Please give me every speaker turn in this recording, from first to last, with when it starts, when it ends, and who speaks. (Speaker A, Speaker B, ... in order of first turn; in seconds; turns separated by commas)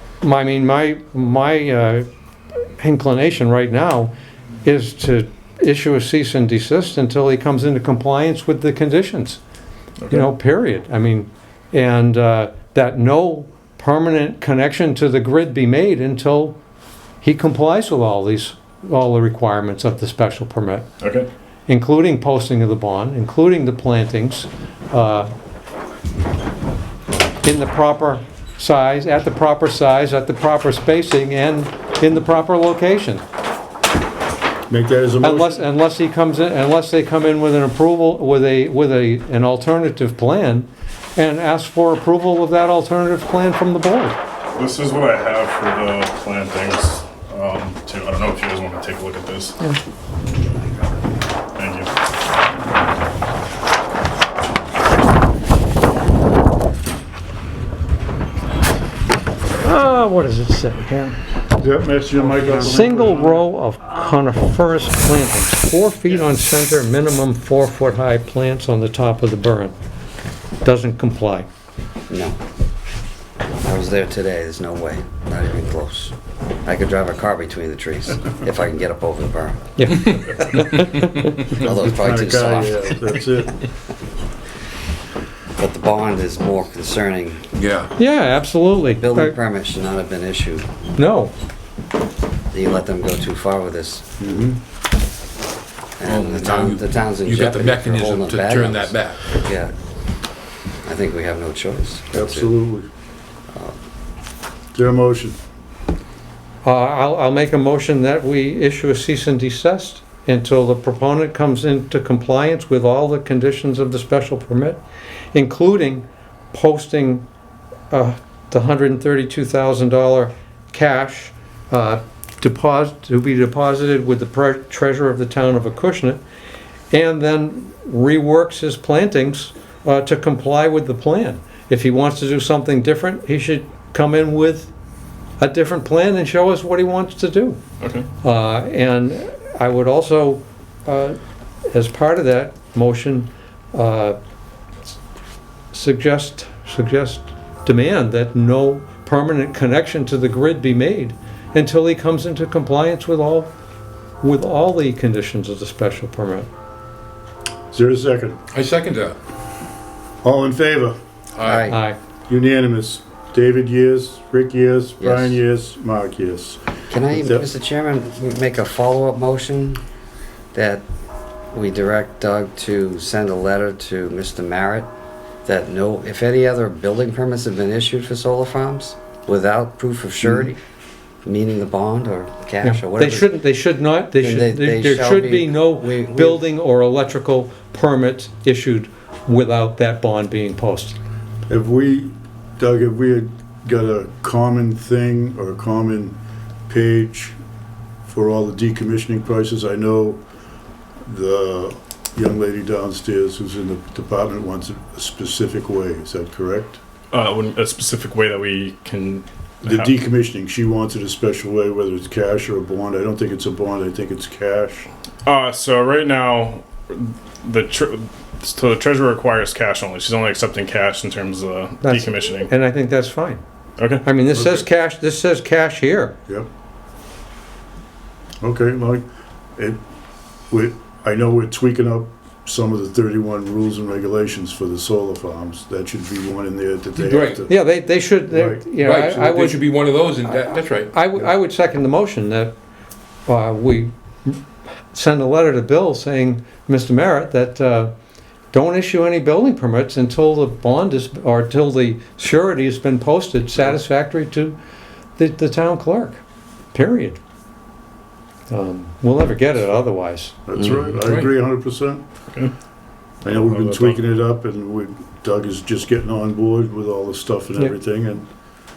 Speaker A: 0.2-2.1, Speaker A: 2.8-4.1, Speaker A: 4.6-9.4, Speaker B: 10.0-10.3, Speaker A: 10.1-16.6, Speaker A: 17.2-20.9, Speaker B: 21.0-21.3, Speaker A: 21.7-25.3, Speaker A: 27.4-33.2, Speaker C: 34.7-35.6, Speaker A: 35.2-44.2, Speaker B: 44.6-49.6, Speaker B: 51.6-51.9, Speaker A: 59.6-61.2, Speaker C: 61.6-63.4, Speaker A: 62.4-69.7, Speaker A: 70.6-71.5, Speaker D: 72.1-72.4, Speaker D: 73.6-79.7, Speaker A: 79.8-81.5, Speaker D: 81.5-82.9, Speaker C: 81.5-83.6, Speaker D: 85.6-87.5, Speaker E: 87.6-87.9, Speaker A: 88.0-89.3, Speaker D: 89.0-90.7, Speaker A: 91.0-91.3, Speaker D: 92.5-94.1, Speaker C: 94.2-94.6, Speaker D: 96.0-99.7, Speaker E: 96.0-99.2, Speaker D: 100.8-102.5, Speaker C: 102.1-102.9, Speaker C: 104.7-105.4, Speaker A: 106.6-114.8, Speaker A: 115.3-117.3, Speaker A: 117.9-126.2, Speaker A: 126.9-134.7, Speaker A: 135.4-137.6, Speaker B: 137.8-138.1, Speaker A: 138.2-144.2, Speaker A: 145.7-153.5, Speaker A: 154.2-156.5, Speaker C: 157.7-158.4, Speaker E: 158.5-159.2, Speaker C: 160.2-161.0, Speaker E: 161.4-161.7, Speaker D: 161.4-161.8, Speaker A: 161.7-162.0, Speaker C: 162.3-167.5, Speaker D: 165.0-165.4, Speaker D: 166.9-169.8, Speaker D: 170.5-170.8, Speaker D: 171.5-174.9, Speaker D: 175.4-180.6, Speaker D: 181.2-183.3, Speaker A: 182.6-191.0, Speaker D: 184.2-186.4, Speaker C: 191.5-196.2, Speaker C: 196.7-197.4, Speaker C: 198.1-200.2, Speaker C: 201.1-206.8, Speaker B: 207.1-209.9, Speaker C: 209.7-214.9, Speaker B: 215.2-222.5, Speaker A: 221.8-223.4, Speaker B: 223.8-224.0, Speaker A: 224.0-226.2, Speaker C: 224.3-224.7, Speaker C: 228.4-229.1, Speaker C: 229.6-229.8, Speaker C: 230.5-237.5, Speaker E: 237.0-237.4, Speaker A: 237.5-239.6, Speaker C: 238.3-238.7, Speaker E: 238.8-240.9, Speaker A: 240.9-242.5, Speaker A: 243.3-244.4, Speaker A: 244.9-247.9, Speaker A: 248.5-254.6, Speaker A: 255.2-256.2, Speaker A: 256.7-257.2, Speaker A: 258.5-260.4, Speaker C: 260.5-262.0, Speaker E: 261.0-261.3, Speaker C: 263.2-268.3, Speaker B: 263.3-264.0